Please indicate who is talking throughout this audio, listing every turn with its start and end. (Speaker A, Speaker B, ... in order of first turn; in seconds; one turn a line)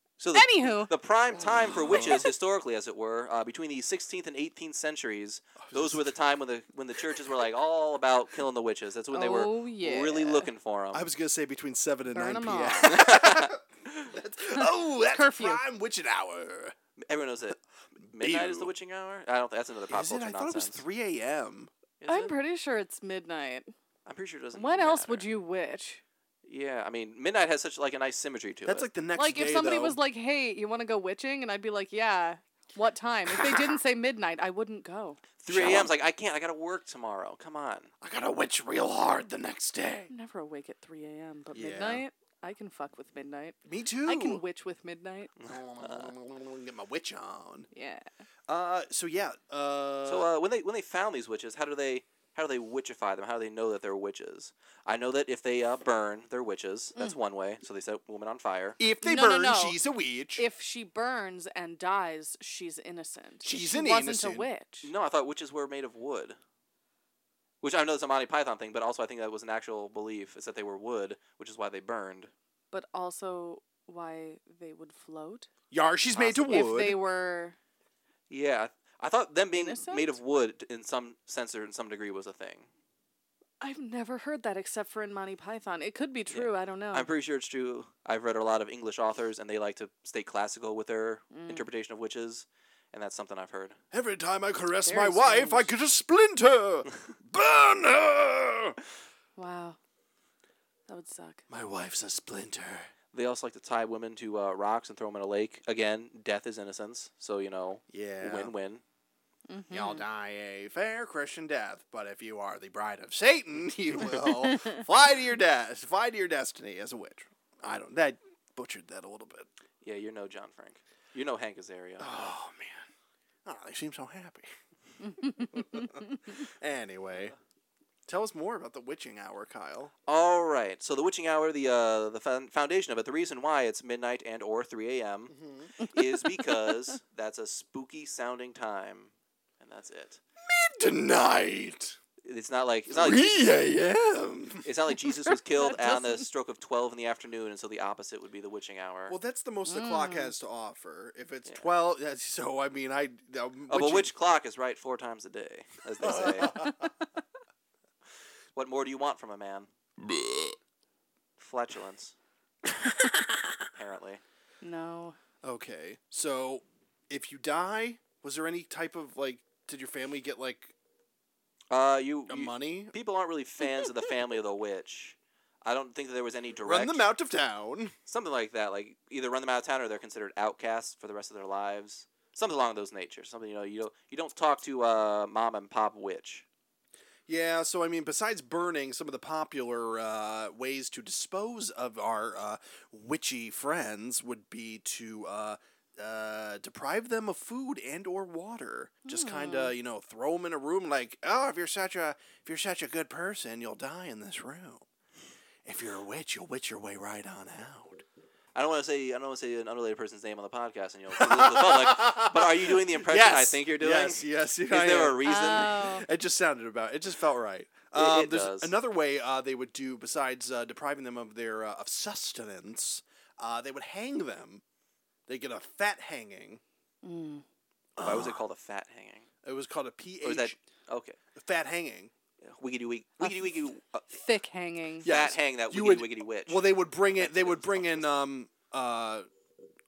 Speaker A: 0.2-11.0
Speaker B: 0.3-0.9
Speaker C: 1.3-2.3
Speaker C: 5.6-6.1
Speaker B: 9.1-10.5
Speaker C: 10.9-16.7
Speaker B: 12.1-13.0
Speaker A: 12.8-13.5
Speaker B: 15.1-15.6
Speaker A: 17.0-20.8
Speaker C: 18.1-18.7
Speaker C: 19.9-21.7
Speaker A: 22.0-22.3
Speaker B: 22.1-23.7
Speaker A: 24.1-25.3
Speaker B: 24.5-26.0
Speaker A: 26.4-28.9
Speaker C: 28.6-30.0
Speaker B: 29.1-35.2
Speaker C: 33.3-33.7
Speaker A: 35.4-37.9
Speaker C: 35.5-36.0
Speaker C: 38.0-40.1
Speaker B: 40.1-45.3
Speaker C: 41.5-42.0
Speaker C: 43.6-44.4
Speaker A: 45.4-46.1
Speaker C: 45.5-47.7
Speaker B: 47.7-48.0
Speaker C: 48.5-50.3
Speaker A: 50.0-58.8
Speaker C: 58.8-60.4
Speaker B: 59.0-59.8
Speaker B: 60.3-64.9
Speaker C: 63.4-64.5
Speaker A: 64.8-66.4
Speaker A: 67.6-72.3
Speaker B: 72.7-75.5
Speaker C: 75.7-77.0
Speaker B: 76.3-77.5
Speaker A: 78.3-82.7
Speaker B: 79.5-80.2
Speaker B: 83.6-87.1
Speaker A: 86.3-93.8
Speaker B: 91.3-91.7
Speaker C: 93.9-98.8
Speaker B: 94.8-95.7
Speaker B: 99.3-99.8
Speaker B: 100.9-101.4
Speaker C: 101.5-102.9
Speaker A: 103.1-108.8
Speaker C: 107.9-108.5
Speaker B: 109.5-110.0
Speaker C: 109.7-119.5
Speaker B: 114.2-114.8
Speaker A: 119.8-122.1
Speaker C: 122.0-122.9
Speaker C: 123.4-124.5
Speaker B: 125.2-126.0
Speaker C: 125.4-127.3
Speaker C: 128.1-129.9
Speaker A: 130.1-140.2
Speaker C: 135.3-135.7
Speaker C: 140.4-142.0
Speaker A: 142.2-143.5
Speaker C: 142.9-145.3
Speaker A: 144.6-149.2
Speaker B: 145.7-146.0
Speaker C: 149.1-154.1
Speaker B: 149.7-150.3
Speaker A: 153.7-156.6
Speaker C: 156.0-156.9
Speaker A: 158.5-159.7
Speaker C: 160.0-160.5
Speaker A: 161.4-162.1
Speaker C: 162.7-163.6
Speaker A: 163.7-164.2
Speaker B: 164.6-165.2
Speaker C: 165.4-170.7
Speaker A: 171.7-177.1
Speaker C: 172.3-172.9
Speaker C: 176.6-177.9
Speaker A: 178.1-186.4
Speaker C: 187.3-204.8
Speaker B: 199.1-199.7
Speaker C: 205.6-208.0
Speaker A: 208.5-215.8
Speaker C: 211.2-224.6
Speaker B: 215.2-216.1
Speaker A: 217.9-218.8
Speaker C: 225.3-226.6
Speaker B: 227.0-227.4
Speaker C: 227.9-228.4
Speaker A: 228.0-229.3
Speaker C: 229.4-230.6
Speaker A: 230.2-231.2
Speaker C: 231.3-232.1
Speaker A: 232.4-234.2
Speaker B: 233.2-235.1
Speaker C: 235.0-239.3
Speaker A: 235.0-238.2